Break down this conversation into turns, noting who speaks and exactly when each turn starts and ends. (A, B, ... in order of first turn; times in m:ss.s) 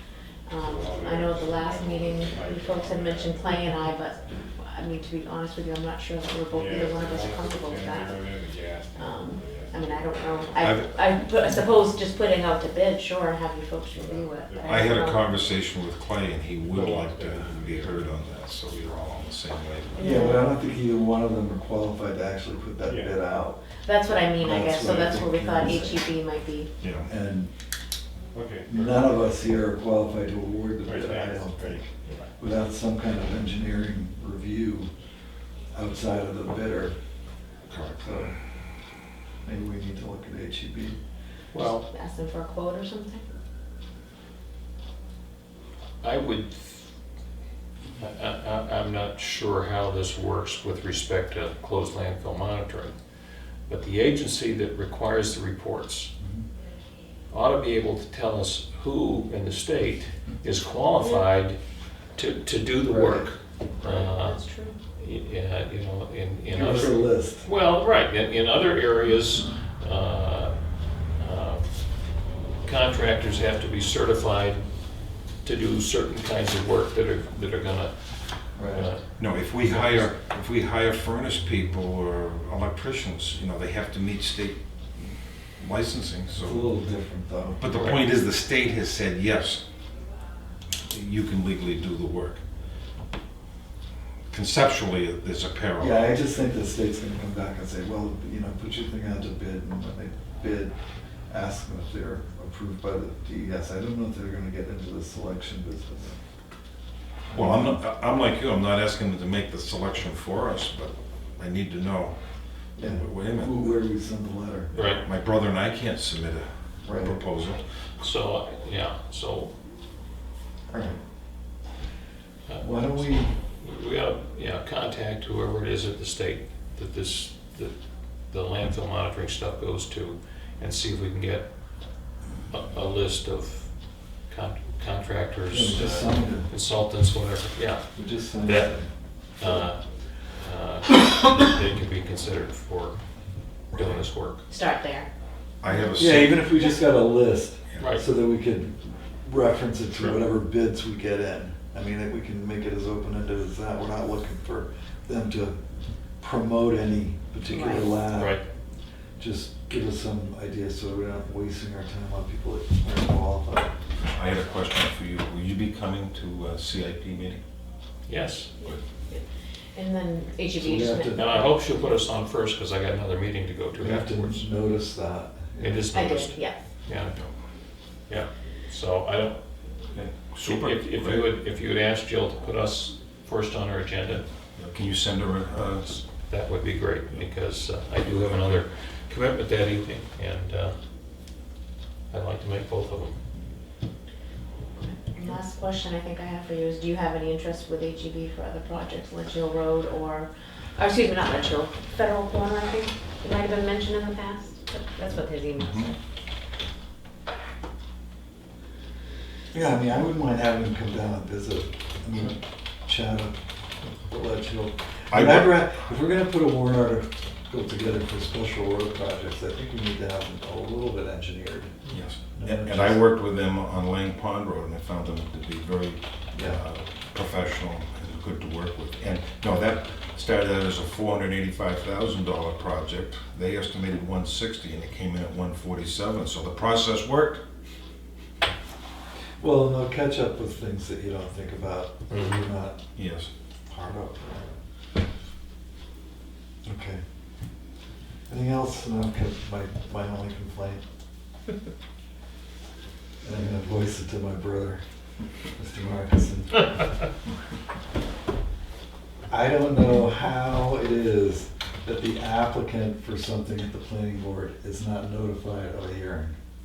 0:00.5-0:08.2 A
0:00.6-0:03.8 B
0:06.5-0:10.5 B
0:08.9-0:15.3 A
0:10.6-0:10.9 C
0:13.9-0:15.1 B
0:14.7-0:20.3 C
0:16.6-0:19.3 B
0:20.0-0:20.4 A
0:20.0-0:23.6 D
0:22.8-0:23.2 B
0:23.8-0:26.7 A
0:24.4-0:26.1 D
0:26.8-0:27.1 C
0:27.0-0:27.5 D
0:28.3-0:28.9 B
0:28.7-0:34.9 D
0:30.8-0:32.3 B
0:35.7-0:37.0 D
0:37.7-0:38.0 C
0:38.0-0:38.3 D
0:39.4-0:41.0 D
0:41.5-0:41.9 E
0:41.9-0:43.2 A
0:46.0-0:46.9 E
0:48.0-0:53.0 E
0:53.7-0:56.1 E
0:56.2-0:56.4 D
0:57.3-1:01.6 E
1:01.0-1:01.2 A
1:02.2-1:04.4 E
1:02.8-1:03.3 D
1:03.8-1:04.8 A
1:05.0-1:10.6 E
1:06.5-1:07.5 D
1:11.2-1:11.7 E
1:12.6-1:14.7 E
1:15.4-1:17.9 E
1:18.6-1:18.9 D
1:18.6-1:19.0 E
1:19.2-1:24.6 C
1:19.6-1:20.1 E
1:25.6-1:26.7 C
1:26.3-1:27.6 D
1:27.6-1:29.6 C
1:27.7-1:28.0 E
1:30.9-1:32.4 C
1:34.3-1:36.1 C
1:35.8-1:40.7 D
1:41.3-1:46.2 D
1:47.3-1:47.8 D
1:47.3-1:52.2 C
1:52.8-1:53.6 C
1:52.8-1:54.8 D
1:54.7-1:55.1 E
1:55.0-1:57.6 C
1:56.8-1:57.2 D
1:58.0-1:59.5 E
2:00.7-2:01.0 D
2:02.5-2:07.7 E
2:02.6-2:03.3 D
2:08.3-2:11.5 E
2:12.5-2:13.7 E
2:14.3-2:17.9 E
2:15.5-2:16.5 D
2:17.9-2:18.9 D
2:18.4-2:18.7 E
2:19.4-2:23.0 E
2:23.7-2:24.4 E
2:23.7-2:24.0 D
2:24.5-2:25.1 A
2:25.6-2:26.4 C
2:25.9-2:35.6 D
2:36.2-2:38.4 D
2:37.5-2:38.0 A
2:38.1-2:38.4 E
2:39.2-2:43.7 D
2:44.1-2:47.4 C
2:48.1-2:48.5 E
2:49.7-2:51.7 A
2:50.6-2:51.3 D
2:51.1-2:54.4 E
2:53.7-2:56.2 D
2:55.6-2:57.2 E
2:55.9-2:56.6 A
2:58.1-2:59.4 E
2:59.9-3:01.3 C
3:00.4-3:04.2 E
3:04.6-3:06.0 C
3:05.9-3:10.7 E
3:12.1-3:13.2 E
3:14.8-3:26.0 A
3:25.6-3:25.9 C
3:29.5-3:41.8 D
3:35.1-3:35.6 C
3:41.9-3:57.4 C
3:42.3-3:43.0 D
3:46.3-3:46.6 D
3:59.4-4:02.8 D
4:02.1-4:02.4 E
4:02.9-4:03.3 C
4:03.7-4:04.6 D
4:06.7-4:07.0 D
4:08.3-4:10.8 D
4:13.2-4:14.8 D
4:15.6-4:16.8 D
4:19.3-4:26.4 D